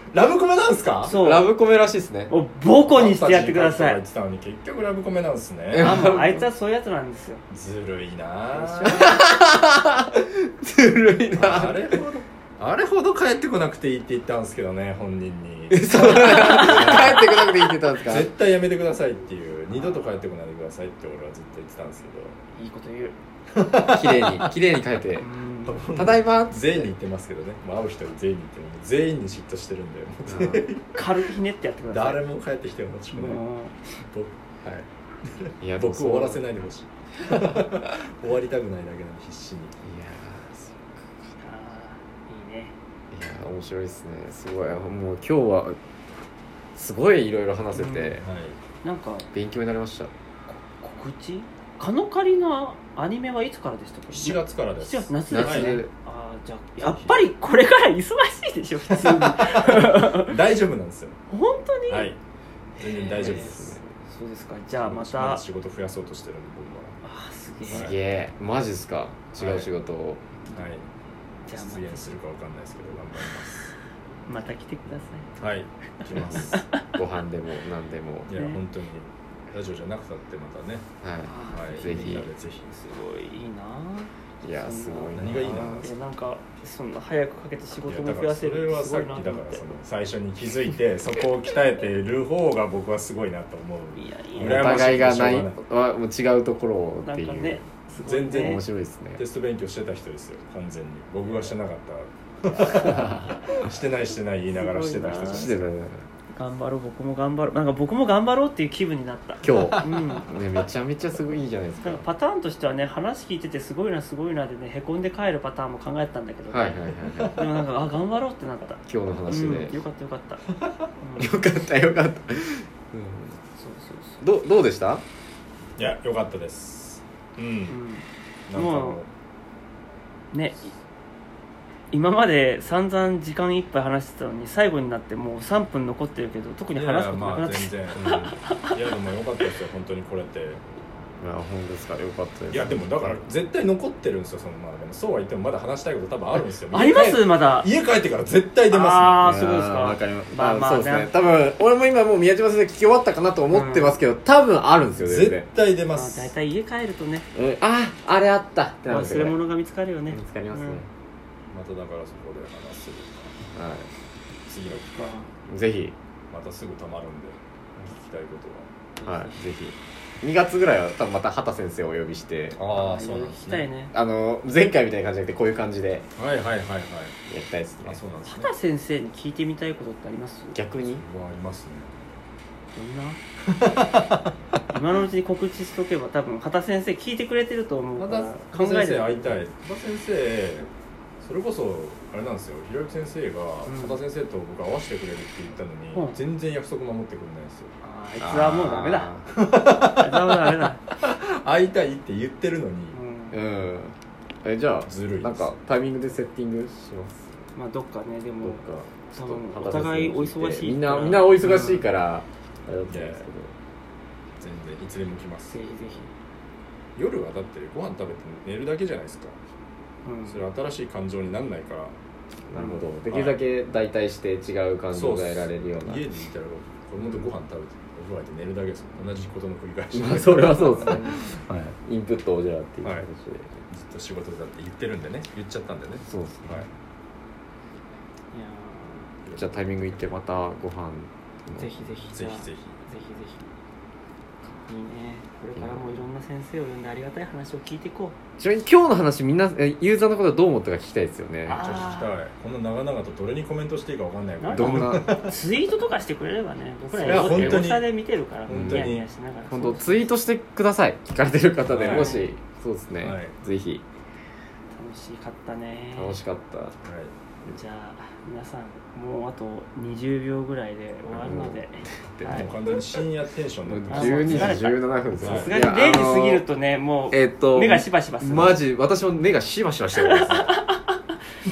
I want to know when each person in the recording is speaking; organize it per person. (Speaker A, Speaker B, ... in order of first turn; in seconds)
Speaker A: 0.1-1.2, 2.9-6.2, 7.5-9.2, 11.3-22.4, 23.5-24.5, 25.6-31.1, 31.9-33.4, 34.1-34.9, 35.4-39.8, 48.2-48.6, 54.1-55.8, 56.8-57.3, 58.9-61.2, 61.9-62.2, 62.8-63.8, 64.8-67.0, 67.7-68.0, 69.4-69.7, 70.5-70.8, 71.5-73.7, 75.4-76.7, 78.3-80.9, 81.5-82.7, 85.1-85.8, 87.8-95.6, 98.0-98.6, 99.2-105.7, 109.6-109.9, 117.1-117.5, 120.6-120.9, 125.8-127.8, 128.5-129.1, 136.7-140.6, 142.5-149.3, 155.0-156.3, 161.5-163.3, 164.5-165.3, 166.3-168.7, 172.6-173.7, 176.2-177.1, 177.8-178.5, 180.8-181.9, 183.5-184.2, 188.0-190.7, 191.2-197.7, 199.3-202.9, 204.8-205.5, 212.9-213.2, 214.4-215.9, 216.9-219.4, 220.3-221.9, 223.1-223.4, 224.9-231.7, 233.7-236.7, 239.2-240.1, 242.1-242.8, 251.5-255.4, 256.9-257.9, 258.4-259.1, 261.6-262.2, 263.0-263.4, 266.8-267.1, 272.2-275.6, 280.2-280.5
Speaker B: 1.0-1.5, 2.3-4.0, 5.8-7.4, 8.5-9.1, 16.2-17.1, 19.7-20.3, 22.5-23.1, 25.2-25.9, 30.9-32.2, 33.1-33.8, 41.4-42.7, 47.7-48.2, 48.8-49.3, 50.5-60.3, 61.3-62.1, 62.8-65.4, 67.0-67.9, 71.5-72.1, 74.3-75.3, 76.0-76.8, 78.3-78.6, 81.2-89.7, 93.9-94.9, 97.0-98.6, 104.5-105.5, 106.3-110.3, 111.8-120.4, 121.0-121.4, 123.6-124.2, 127.7-129.0, 130.3-130.7, 131.9-138.7, 146.7-147.7, 148.7-151.1, 153.5-154.0, 155.9-157.3, 158.9-160.8, 164.7-165.3, 169.0-169.4, 172.8-173.9, 178.2-180.6, 182.7-183.2, 184.7-189.4, 193.7-194.0, 197.8-199.1, 199.6-200.8, 202.9-203.4, 207.5-211.9, 215.5-216.1, 220.0-220.4, 222.5-222.8, 230.6-231.3, 238.3-239.1, 241.6-243.5, 244.6-248.2, 251.4-252.2, 254.4-260.1, 261.8-262.3, 264.7-266.1, 267.4-272.7, 273.9-278.6, 279.9-280.9
Speaker C: 1.0-2.3, 5.7-6.5, 8.9-12.0, 15.7-18.3, 23.9-25.2, 25.9-26.9, 30.3-30.6, 35.6-36.4, 39.8-40.8, 43.1-45.8, 46.7-48.2, 49.3-50.1, 55.3-55.9, 63.3-63.7, 67.7-70.4, 76.1-78.3, 81.0-82.3, 84.4-85.9, 94.4-97.6, 98.3-99.2, 102.9-103.3, 105.3-106.0, 109.4-112.1, 116.5-117.4, 118.9-119.8, 121.2-123.4, 124.2-125.0, 138.0-138.2, 141.2-143.2, 149.2-155.4, 157.3-159.4, 160.1-160.9, 163.5-163.9, 165.5-165.9, 169.0-172.6, 173.9-176.1, 177.3-178.0, 180.5-181.0, 198.2-199.3, 203.3-207.3, 208.4-213.5, 222.5-226.0, 229.9-231.3, 231.8-233.6, 236.1-236.7, 239.3-241.7, 245.5-246.0, 248.4-251.6, 254.5-255.2, 257.0-257.7, 258.5-258.9, 259.5-263.8, 265.9-266.8, 271.1-272.5, 273.6-276.4, 277.1-280.5